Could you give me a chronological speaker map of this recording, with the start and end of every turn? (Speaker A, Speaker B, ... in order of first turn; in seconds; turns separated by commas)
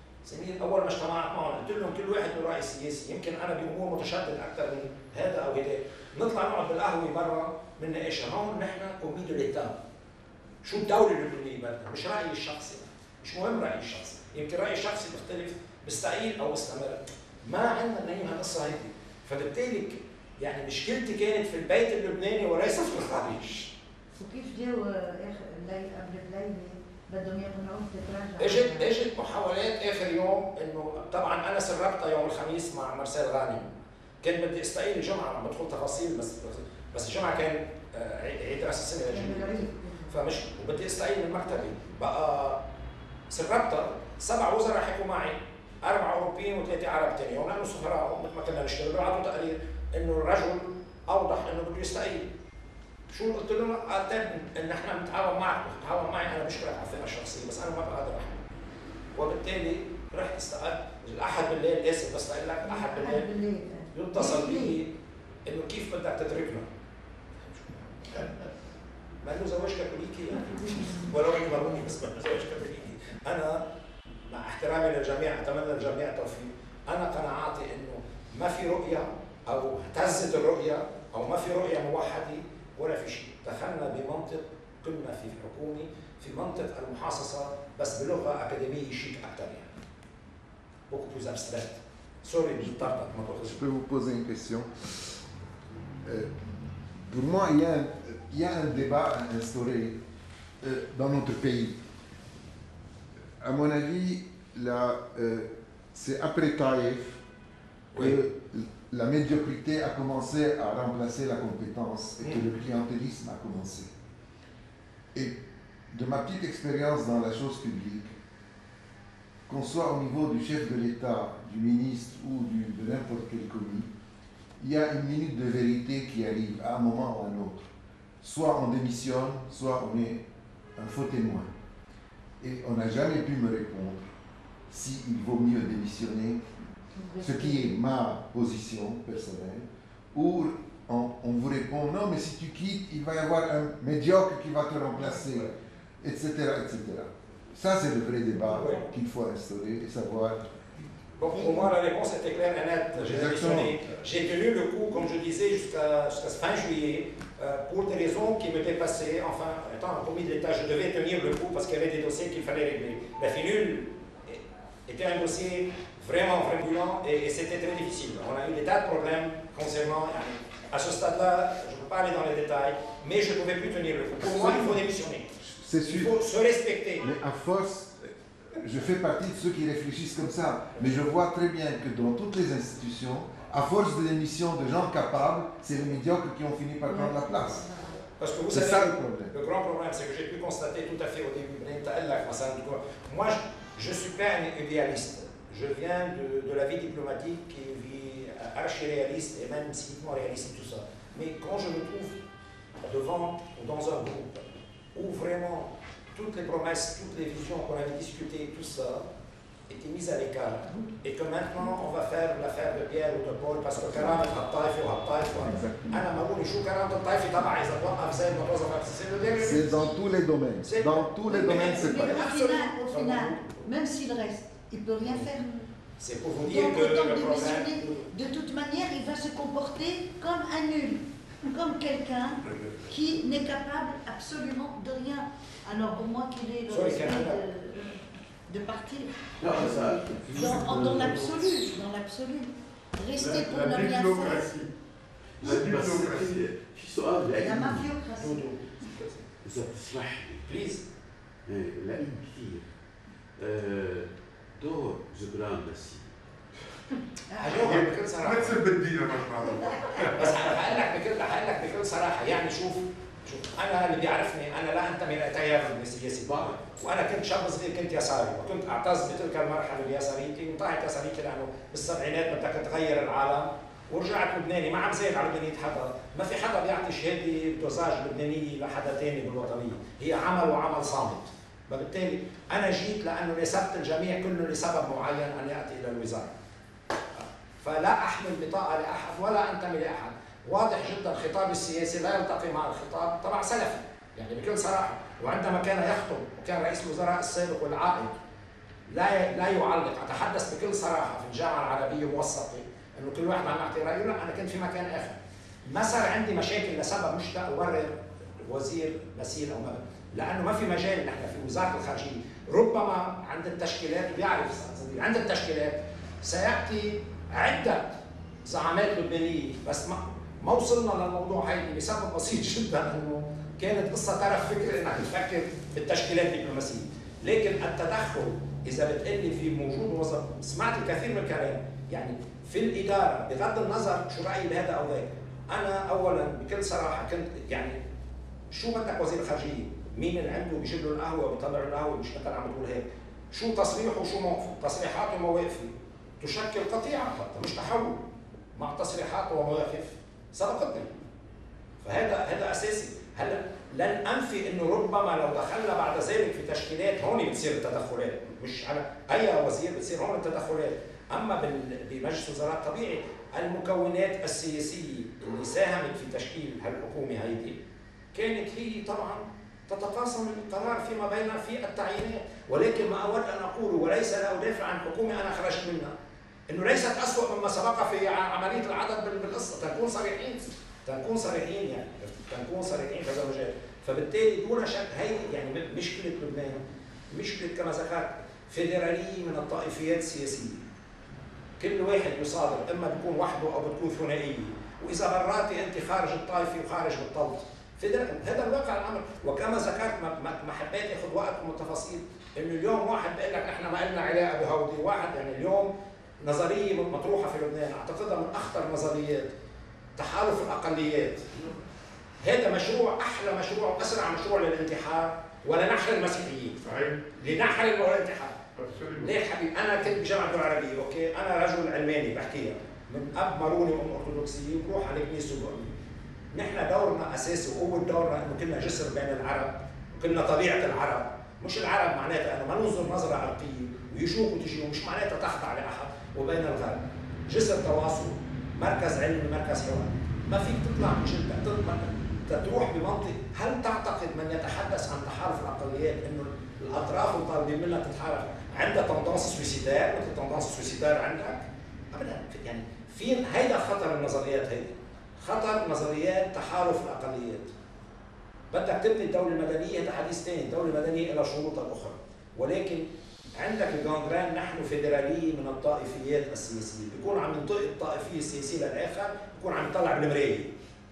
Speaker A: 0.2-9.8, Speaker A: 10.6-23.7, Speaker B: 24.2-28.9, Speaker A: 28.4-42.6, Speaker B: 39.0-40.2, Speaker A: 43.3-52.3, Speaker A: 53.1-58.5, Speaker A: 59.1-63.3, Speaker B: 62.6-64.8, Speaker A: 63.9-64.9, Speaker A: 65.5-66.7, Speaker A: 67.4-68.5, Speaker A: 69.2-73.6, Speaker B: 70.4-71.0, Speaker A: 74.2-89.8, Speaker A: 90.9-93.6, Speaker C: 93.5-95.1, Speaker C: 96.0-96.3, Speaker C: 97.1-100.0, Speaker C: 100.6-101.8, Speaker C: 103.4-107.2, Speaker C: 108.0-113.9, Speaker C: 115.9-118.1, Speaker C: 119.5-123.9, Speaker C: 124.6-127.7, Speaker C: 128.2-130.2, Speaker C: 130.8-131.5, Speaker C: 132.4-134.1, Speaker C: 134.7-136.4, Speaker B: 136.9-137.8, Speaker C: 137.2-150.5, Speaker A: 148.5-148.8, Speaker A: 151.2-177.1, Speaker C: 152.9-153.7, Speaker C: 174.2-174.8, Speaker C: 175.4-176.1, Speaker C: 177.0-187.7, Speaker B: 186.9-187.9, Speaker A: 188.2-202.2, Speaker C: 188.5-189.3, Speaker A: 202.8-209.1, Speaker A: 209.7-220.0, Speaker C: 215.5-215.9, Speaker C: 219.4-222.2, Speaker A: 220.6-223.7, Speaker B: 221.4-225.7, Speaker A: 225.0-225.3, Speaker A: 226.0-228.1, Speaker B: 226.4-244.5, Speaker A: 236.7-237.4, Speaker D: 239.4-241.4, Speaker E: 243.2-244.7, Speaker E: 245.4-246.4, Speaker D: 245.4-247.9, Speaker B: 247.3-248.4, Speaker A: 248.2-249.2, Speaker D: 249.4-250.5, Speaker A: 250.5-250.8, Speaker D: 251.4-252.6, Speaker D: 253.4-256.1, Speaker A: 257.4-258.6, Speaker E: 257.5-260.4, Speaker A: 260.1-286.3, Speaker A: 287.2-298.2, Speaker A: 298.9-317.9, Speaker A: 318.4-337.8, Speaker A: 338.5-348.0, Speaker A: 348.5-350.9, Speaker A: 351.8-367.6, Speaker A: 368.1-375.9, Speaker A: 376.5-386.6, Speaker A: 387.1-390.6, Speaker A: 391.6-409.3, Speaker A: 410.0-411.4, Speaker A: 412.2-416.6, Speaker E: 416.6-417.1, Speaker A: 417.2-418.4, Speaker E: 418.6-419.2, Speaker A: 419.0-425.7, Speaker A: 426.3-457.5, Speaker A: 458.5-470.5